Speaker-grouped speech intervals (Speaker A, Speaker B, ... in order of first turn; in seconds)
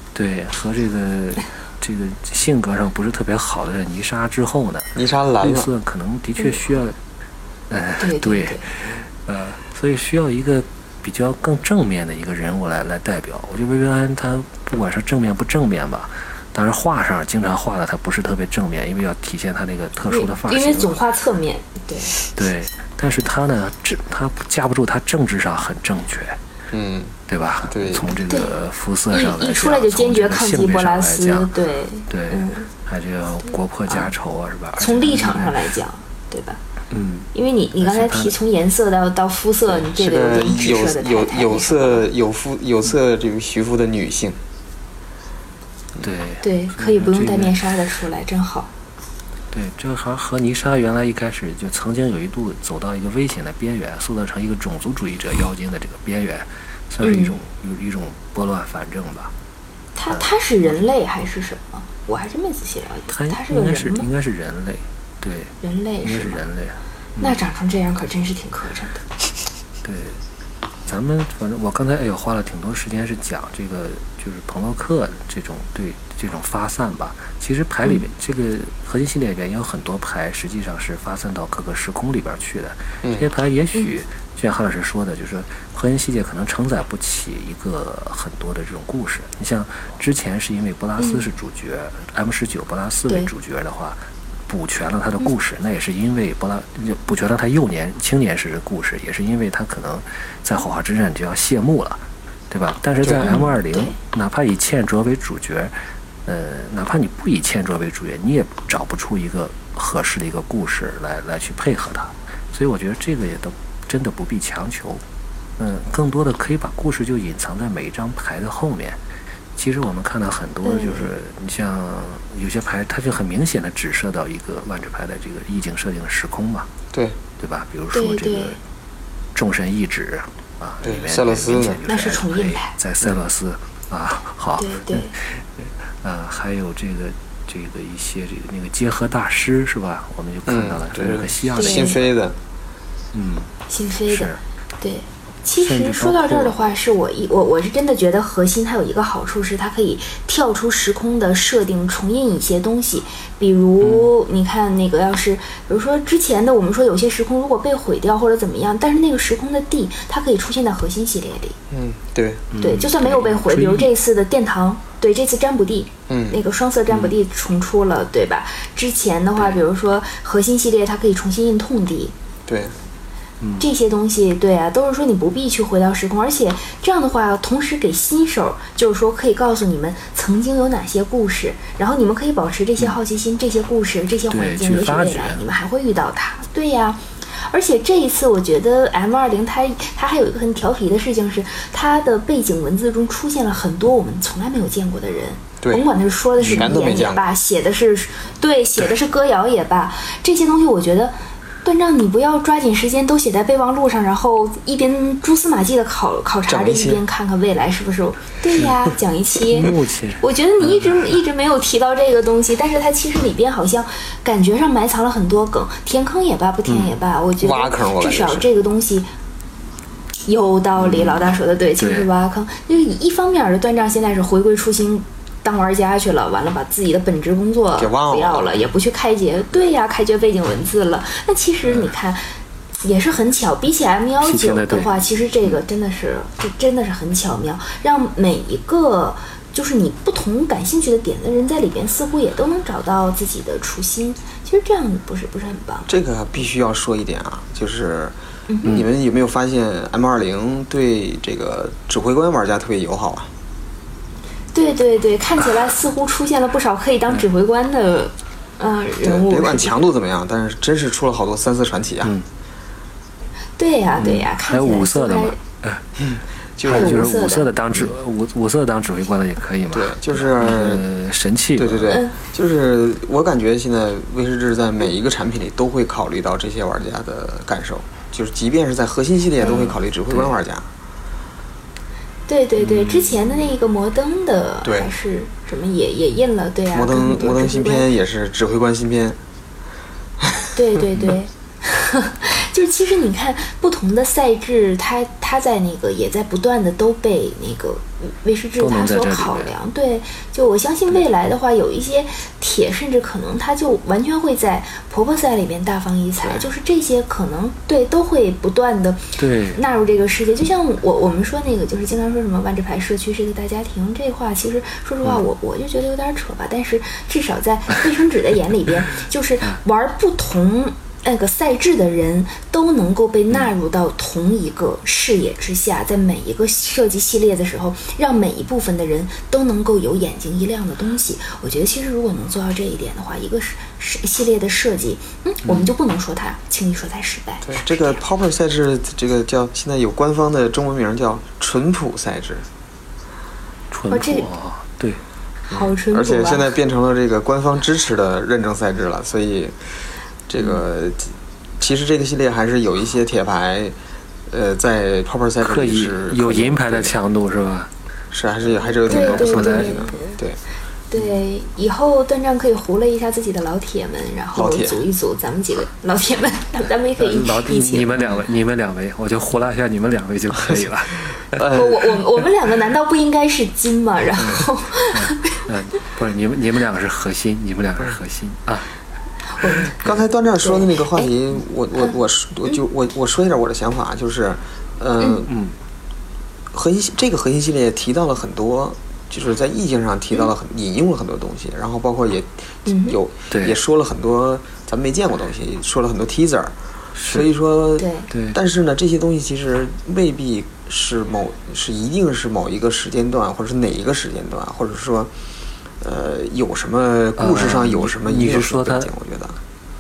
Speaker A: 0.1-7.0, 7.7-21.0, 22.3-26.4, 27.3-31.5, 32.1-35.6, 36.9-38.4, 46.0-47.6, 49.5-59.3, 60.1-60.8, 63.1-67.4, 69.8-70.2, 70.9-105.7, 106.3-115.0, 115.6-119.0, 119.6-126.7, 127.4-128.6, 129.3-142.1, 143.1-144.4, 145.6-146.6, 153.8-154.1, 162.5-163.9, 173.4-173.7, 184.3-185.4, 196.4-196.7, 209.5-211.0, 220.8-222.1, 234.2-234.9, 264.0-265.9, 266.6-272.0, 279.4-280.4, 282.6-283.4, 298.6-299.5, 309.2-309.6, 343.7-345.0, 355.4-357.7, 358.8-360.1, 367.0-371.5, 374.9-378.7, 379.5-380.0, 385.3-385.6, 393.3-393.6, 397.0-397.3, 398.1-398.4, 407.2-408.9
Speaker B: 5.0-5.7, 26.7-27.2, 27.7-28.1, 39.8-44.4, 83.0-83.3, 103.0-103.3, 126.9-127.2, 130.8-131.8, 140.5-142.4, 161.7-162.5, 166.1-166.4, 172.5-172.8, 196.5-197.3, 206.5-207.0, 217.4-218.5, 227.8-228.6, 245.9-253.3, 259.0-262.1, 266.0-267.1, 269.7-270.9, 271.6-280.7, 284.6-284.9, 286.7-289.2, 290.2-290.5, 337.4-342.5, 345.5-349.7, 350.3-353.8, 354.3-357.0, 358.1-360.4, 364.3-364.8, 371.3-371.9, 379.8-385.3, 386.5-405.1, 405.8-409.4
Speaker C: 8.0-8.7, 20.1-22.2, 28.3-28.6, 29.1-32.7, 34.8-36.6, 37.3-42.1, 46.4-48.7, 57.0-57.4, 60.0-64.1, 65.6-66.4, 67.2-69.0, 91.0-91.3, 103.2-104.0, 120.6-121.1, 127.9-128.6, 131.9-132.7, 134.6-135.1, 141.6-142.0, 143.7-161.6, 162.6-172.1, 173.6-219.1, 220.3-232.2, 232.8-245.9, 248.5-248.8, 254.5-259.8, 263.6-265.4, 266.7-267.5, 279.4-279.7, 282.3-287.9, 290.6-338.0, 343.9-344.3, 345.5-346.5, 358.9-360.0, 360.9-367.9, 371.4-375.4, 379.4-379.8, 380.4-381.1, 385.0-385.3, 392.7-393.0, 397.8-398.1